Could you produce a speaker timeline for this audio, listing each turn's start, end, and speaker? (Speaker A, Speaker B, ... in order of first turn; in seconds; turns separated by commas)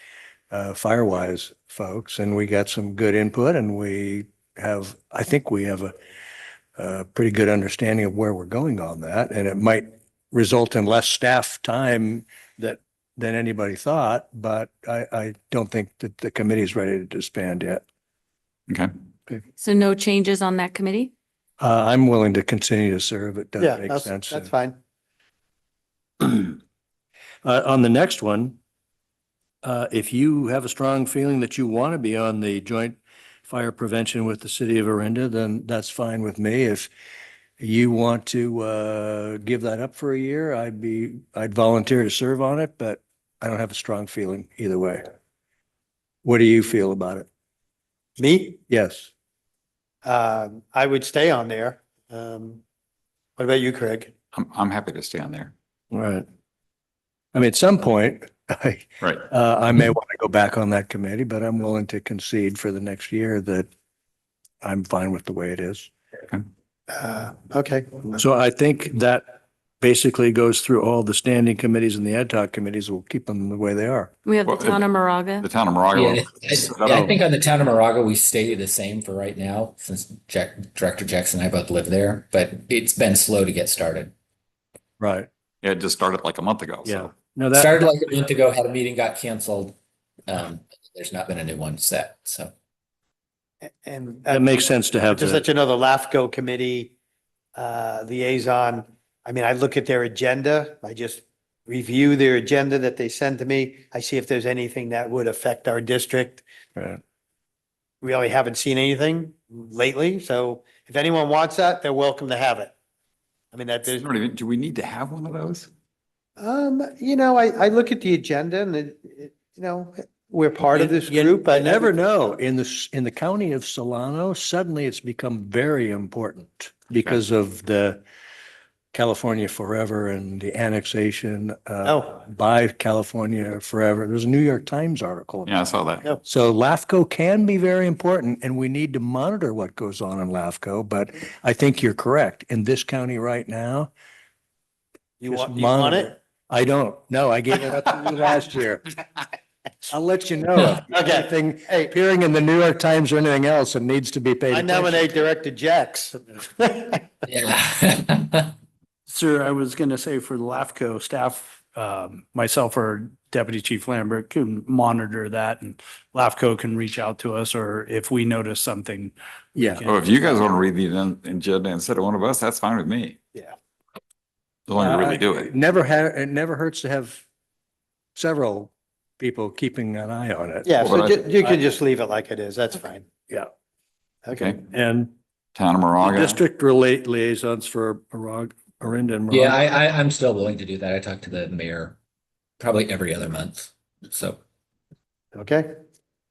Speaker A: 0.5-5.9, Speaker A: 6.8-17.8, Speaker B: 19.6-21.1, Speaker A: 21.6-24.5, Speaker C: 23.6-24.8, Speaker A: 26.2-26.6, Speaker A: 27.4-28.6, Speaker A: 29.6-36.9, Speaker A: 37.6-45.0, Speaker A: 46.2-47.2, Speaker C: 48.2-48.6, Speaker A: 48.7-49.1, Speaker C: 50.0-52.6, Speaker C: 53.4-54.1, Speaker D: 54.3-55.5, Speaker A: 55.9-56.2, Speaker A: 57.3-63.7, Speaker A: 64.6-65.9, Speaker C: 66.9-68.2, Speaker A: 68.1-69.2, Speaker A: 69.8-74.1, Speaker B: 74.2-75.5, Speaker D: 74.4-77.1, Speaker E: 75.9-84.1, Speaker A: 85.0-85.3, Speaker D: 85.6-87.1, Speaker A: 86.8-87.7, Speaker E: 87.5-89.8, Speaker E: 90.3-92.5, Speaker C: 93.6-96.9, Speaker A: 94.3-95.4, Speaker C: 97.5-106.4, Speaker C: 108.0-112.7, Speaker C: 113.5-114.0, Speaker D: 113.9-115.7, Speaker C: 116.4-121.9, Speaker A: 120.7-128.0, Speaker A: 128.9-135.6, Speaker C: 131.8-132.1, Speaker D: 135.4-136.1, Speaker A: 136.2-143.9, Speaker C: 145.2-146.1, Speaker A: 145.2-148.9, Speaker A: 149.8-155.2, Speaker C: 150.9-151.9, Speaker C: 154.5-157.1, Speaker E: 157.3-158.5, Speaker F: 159.1-170.6, Speaker A: 169.6-169.8, Speaker D: 169.8-173.2, Speaker D: 174.7-175.5, Speaker A: 174.8-177.2, Speaker A: 178.2-180.8, Speaker C: 180.6-183.0, Speaker D: 180.8-181.5, Speaker C: 184.2-184.6, Speaker D: 184.4-184.6, Speaker A: 184.7-185.1, Speaker D: 185.5-186.4, Speaker A: 186.0-189.6, Speaker E: 189.3-191.9, Speaker E: 192.6-194.4, Speaker C: 195.3-195.7